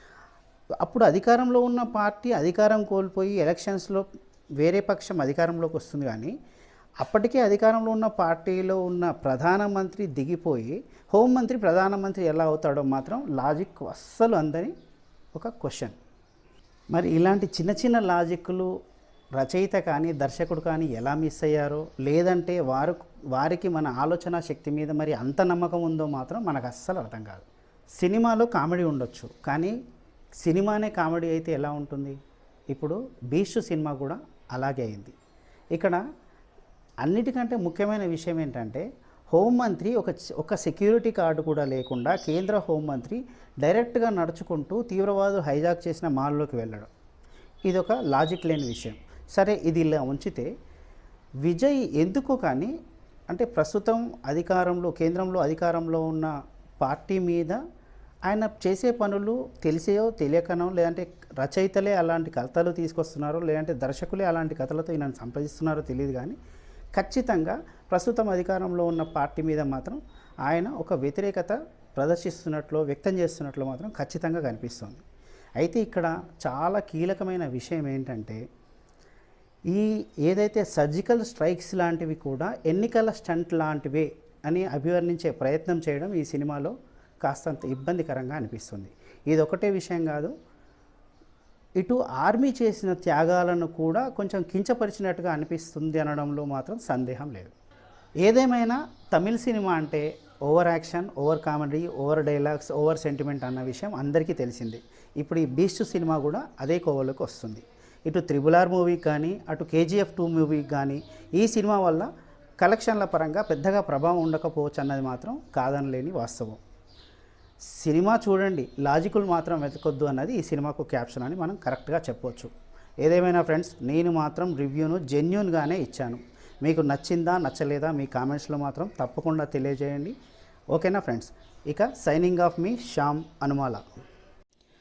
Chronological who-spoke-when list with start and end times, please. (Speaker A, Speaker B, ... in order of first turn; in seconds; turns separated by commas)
Speaker A: 0.8-4.0, Speaker A: 4.6-6.3, Speaker A: 7.0-14.7, Speaker A: 15.3-15.9, Speaker A: 16.9-18.7, Speaker A: 19.4-27.4, Speaker A: 28.0-29.7, Speaker A: 30.4-32.1, Speaker A: 32.7-35.1, Speaker A: 35.7-36.0, Speaker A: 37.0-46.9, Speaker A: 47.6-50.5, Speaker A: 51.4-52.7, Speaker A: 53.3-57.6, Speaker A: 58.3-66.4, Speaker A: 66.9-75.0, Speaker A: 75.6-78.4, Speaker A: 79.7-90.3, Speaker A: 91.8-97.5, Speaker A: 98.2-112.1, Speaker A: 112.6-116.6, Speaker A: 117.7-122.5, Speaker A: 123.0-130.1, Speaker A: 130.7-133.8